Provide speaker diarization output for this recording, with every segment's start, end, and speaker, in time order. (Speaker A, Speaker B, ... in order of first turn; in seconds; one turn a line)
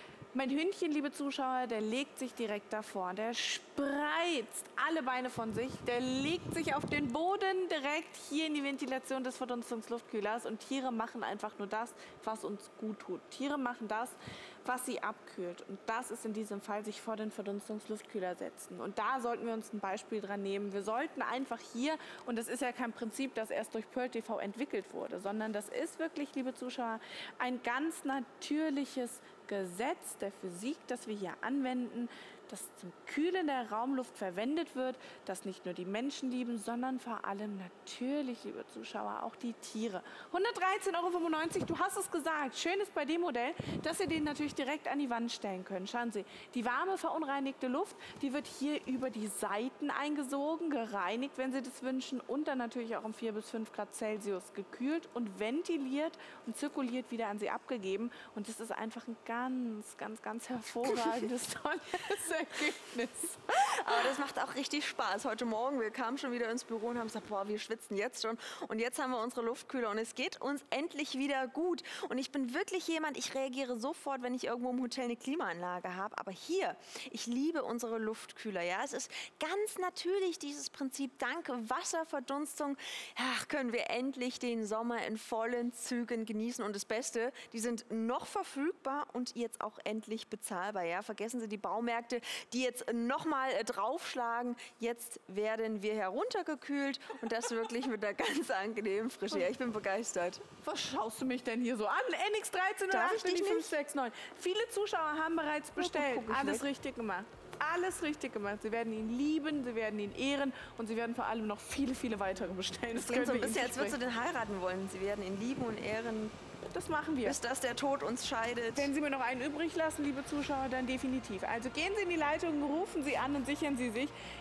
Speaker A: 0.3-64.2
Speaker B: 63.5-100.5
Speaker A: 100.6-114.0
Speaker B: 102.9-103.7
Speaker B: 105.8-106.7
Speaker B: 113.0-116.3
Speaker A: 116.7-117.4
Speaker B: 117.2-118.9
Speaker A: 118.7-124.1